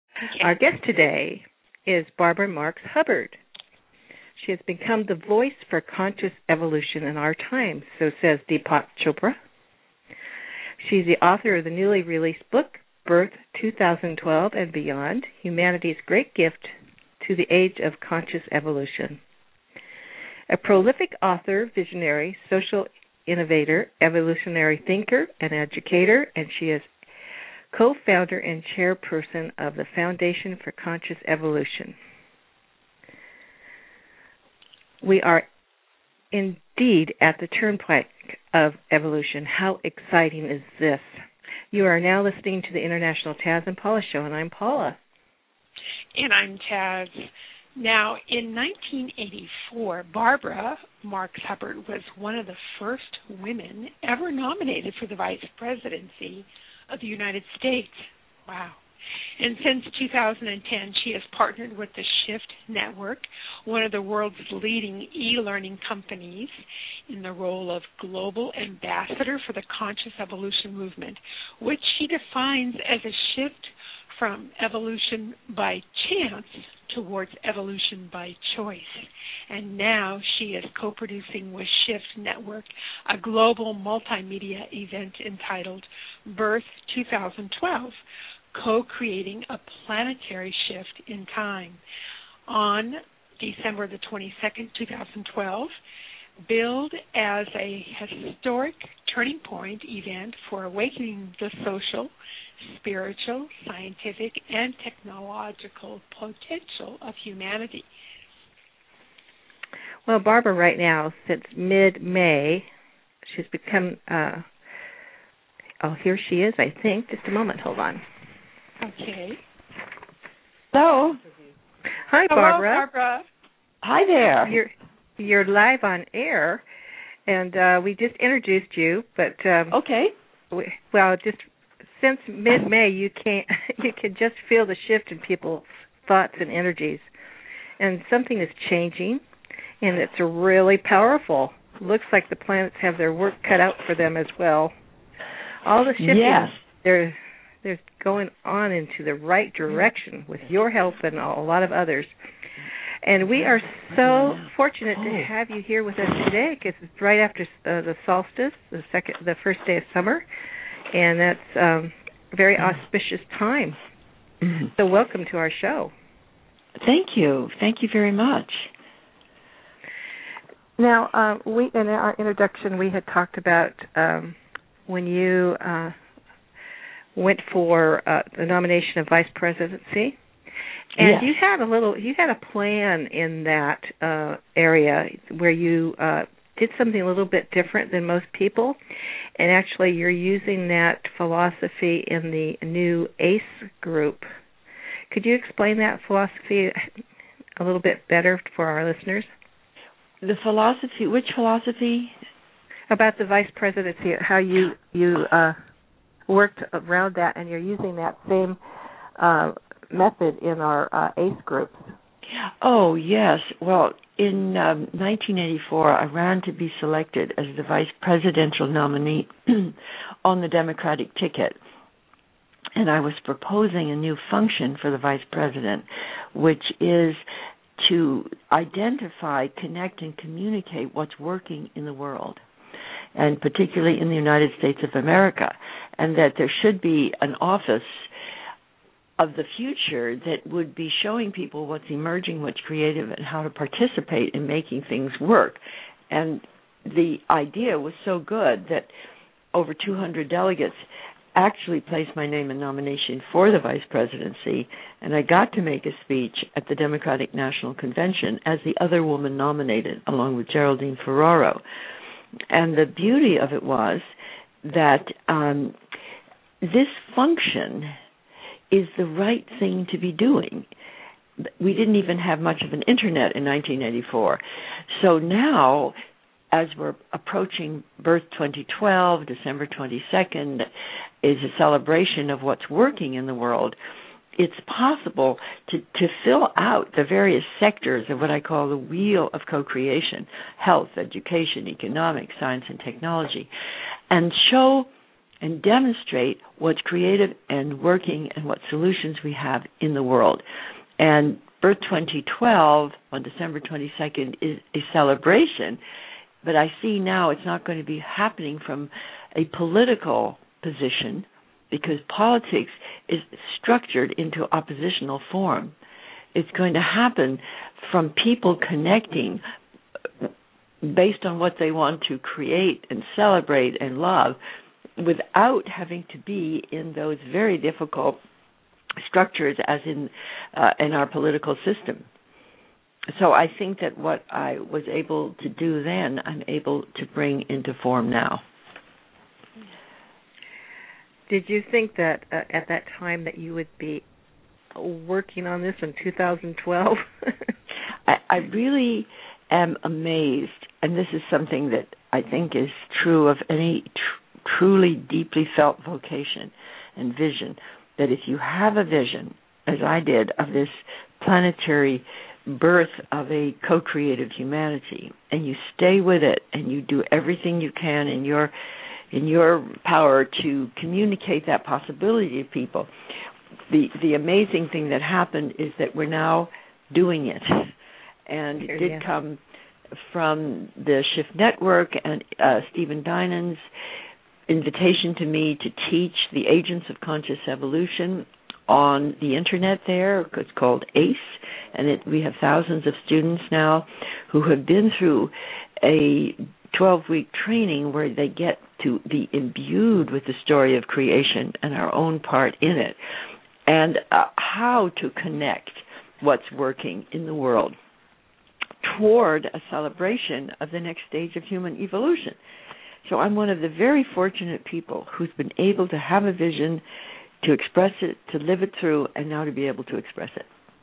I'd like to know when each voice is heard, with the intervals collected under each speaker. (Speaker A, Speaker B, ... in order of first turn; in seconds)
Speaker A: 0.2-0.5, 46.1-58.8, 59.4-66.5, 67.1-88.0, 88.5-91.8, 92.5-95.7, 96.5-107.9, 118.8-119.4, 122.3-123.2
Speaker B: 0.4-3.4, 4.4-9.4, 10.8-19.2, 20.5-26.9, 27.7-31.9, 35.0-35.5, 36.3-41.1, 41.7-45.0, 110.0-112.7, 113.2-114.5, 115.8-118.0, 122.1-122.9, 124.4-126.6, 127.3-129.8, 130.5-137.1, 137.8-139.2, 139.8-144.7, 145.6-152.1, 153.0-160.2, 160.9-163.8, 164.7-165.9, 170.8-174.3, 174.9-175.9, 177.1-180.2, 181.0-188.8, 189.4-194.3, 195.1-196.9, 197.6-199.3, 202.9-205.6, 206.3-208.6, 209.2-211.8, 341.3-344.0, 344.7-347.5, 378.7-379.0
Speaker C: 120.7-121.2, 123.8-124.6, 129.7-130.1, 146.0-146.6, 166.8-168.7, 181.0-181.3, 200.2-202.1, 212.4-221.6, 222.7-227.2, 227.8-232.4, 233.2-238.1, 239.2-248.9, 249.5-250.8, 251.3-261.6, 262.5-264.1, 264.6-265.8, 266.6-267.9, 268.7-270.7, 271.4-276.0, 276.5-280.7, 281.2-283.8, 284.4-293.5, 294.1-294.9, 295.4-300.4, 301.0-305.8, 306.4-315.8, 316.3-319.4, 320.8-324.4, 325.0-328.2, 329.0-332.1, 333.1-338.4, 348.1-368.5, 369.1-372.9, 373.7-377.7, 378.3-379.4, 379.9-383.6, 384.5-403.0, 403.7-407.8, 408.8-412.4, 413.0-416.8, 417.4-420.5